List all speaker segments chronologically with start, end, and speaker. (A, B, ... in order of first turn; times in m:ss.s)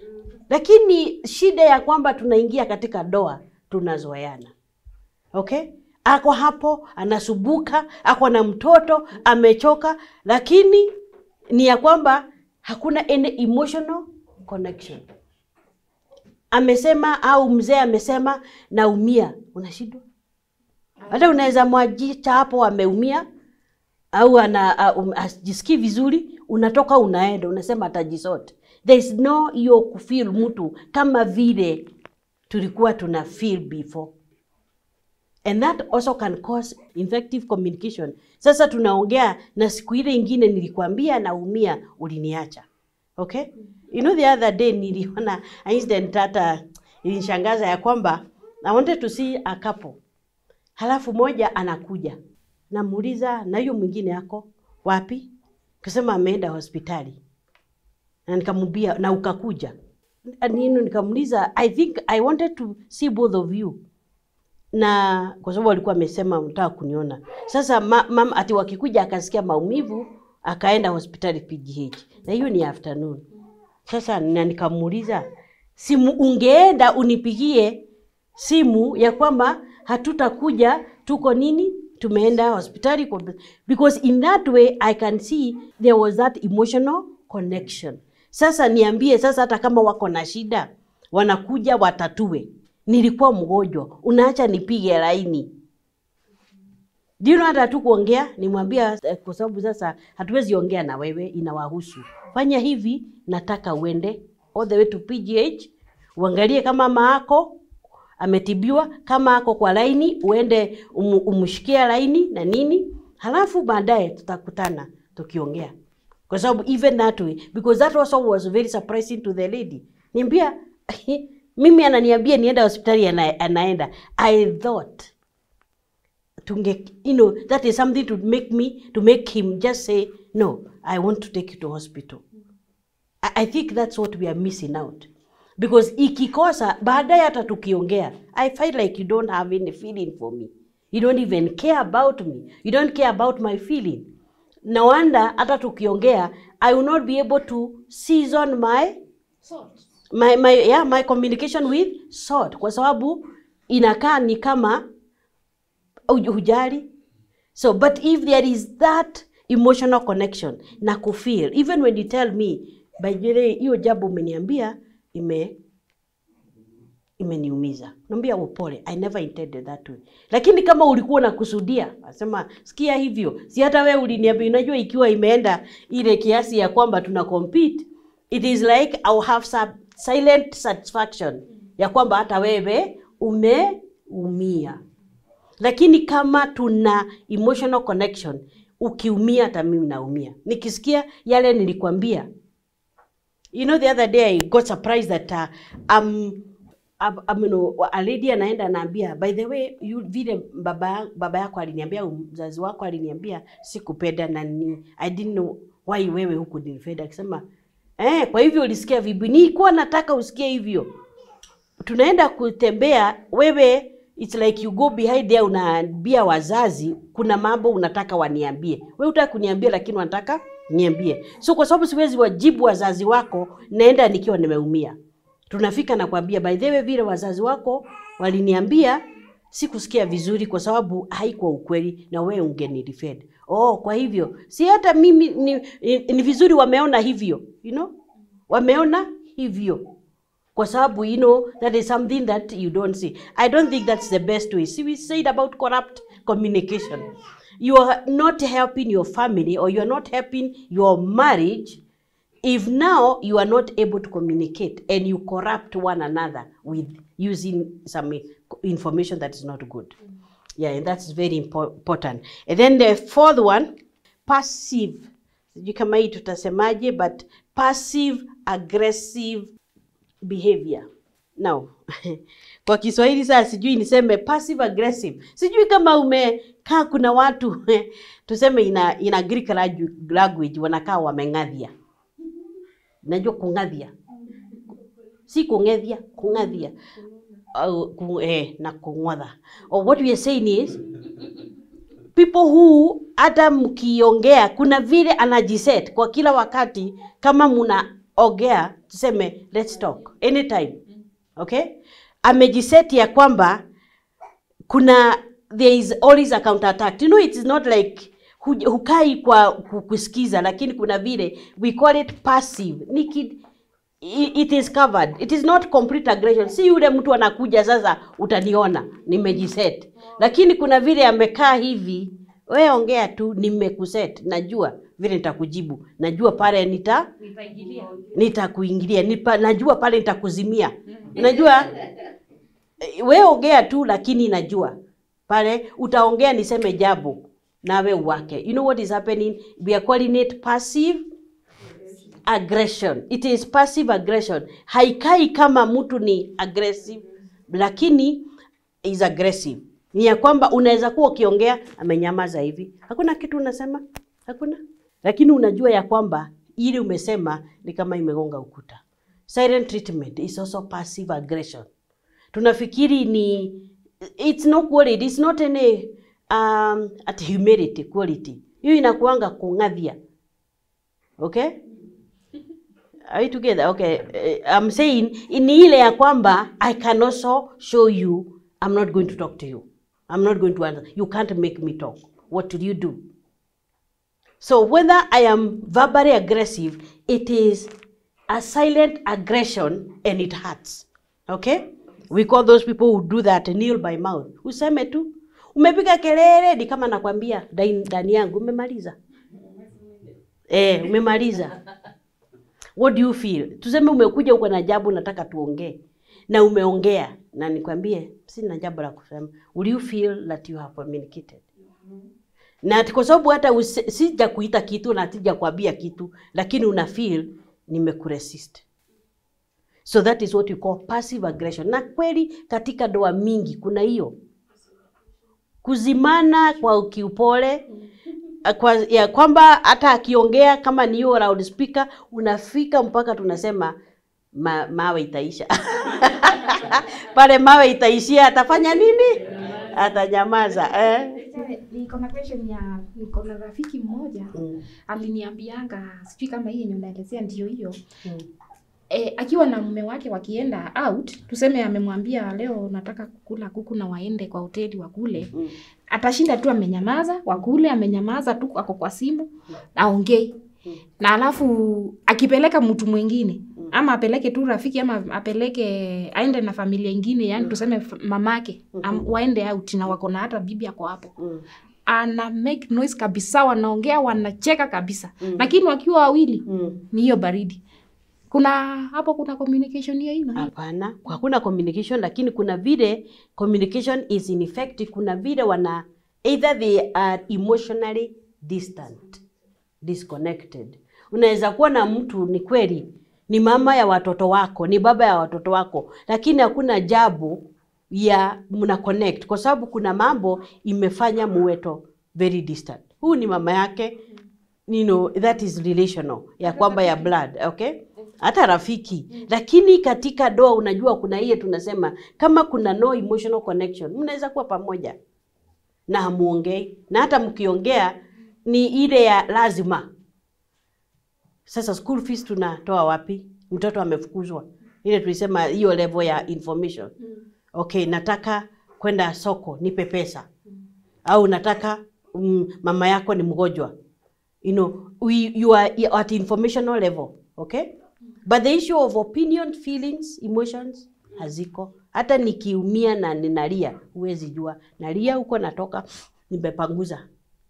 0:00.5-0:04.5 A
0:05.3-0:10.9 A
0:11.5-0:15.0 A
0:16.5-0:20.0 A
0:21.0-0:21.5 B
0:21.1-0:23.3 A
0:24.1-0:31.9 A
0:32.5-0:34.1 A
0:35.4-0:42.6 A
0:43.2-0:50.0 A
0:50.8-0:52.2 A
0:52.7-0:55.3 A
0:55.8-0:57.2 A
0:58.3-0:59.7 A
1:00.4-1:03.8 A
1:04.8-1:13.2 A
1:13.9-1:15.2 A
1:15.8-1:17.8 A
1:18.4-1:35.5 A
1:37.2-1:47.6 A
1:48.2-1:55.7 A
1:56.3-2:05.1 A
2:06.4-2:12.2 A
2:13.2-2:24.1 A
2:24.7-2:29.0 A
2:29.4-2:29.8 B
2:30.1-2:34.8 A
2:36.1-2:36.9 A
2:37.6-2:45.5 A
2:47.2-3:04.8 A
3:05.6-3:12.3 A
3:13.5-3:16.5 A
3:17.0-3:27.4 A
3:28.0-3:30.9 A
3:31.8-3:45.0 A
3:45.5-3:57.9 A
3:58.5-3:59.8 A
4:00.6-4:07.1 A
4:07.6-4:11.8 A
4:12.4-4:19.9 A
4:20.6-4:23.7 A
4:24.3-4:29.5 A
4:30.2-4:30.9 A
4:31.4-4:41.7 A
4:43.0-4:43.9 A
4:44.2-4:44.6 B
4:45.3-4:46.7 A
4:46.4-4:47.2 B
4:47.5-4:50.8 A
4:52.1-5:00.8 A
5:01.4-5:03.6 A
5:04.7-5:13.4 A
5:14.0-5:27.1 A
5:27.2-5:28.1 B
5:28.1-5:31.7 A
5:30.9-5:31.4 B
5:32.8-5:34.7 A
5:35.3-5:41.0 A
5:42.2-5:48.2 A
5:48.8-6:01.7 A
6:02.3-6:03.6 A
6:04.2-6:10.0 A
6:11.2-6:11.5 A
6:13.1-6:23.0 A
6:24.4-6:27.7 A
6:28.3-6:39.0 A
6:40.5-6:41.6 A
6:42.8-6:45.8 A
6:46.3-6:51.4 A
6:52.6-6:58.6 A
6:59.9-7:04.1 A
7:05.6-7:07.6 A
7:08.4-7:13.7 A
7:14.3-7:21.2 A
7:21.2-7:24.4 B
7:24.3-7:24.6 A
7:24.9-7:27.8 B
7:28.9-7:35.4 B
7:35.9-7:40.3 B
7:41.0-7:51.1 B
7:48.7-7:49.0 A
7:51.9-7:57.6 B
7:56.5-7:56.8 A
7:58.3-8:00.5 B
8:00.4-8:09.2 A
8:09.8-8:24.0 A
8:24.7-8:35.0 A
8:26.4-8:27.1 B
8:35.9-8:39.9 A
8:41.5-8:46.9 A
8:47.5-8:50.3 A
8:51.0-8:53.7 A
8:54.4-8:57.7 A
8:58.3-9:07.0 A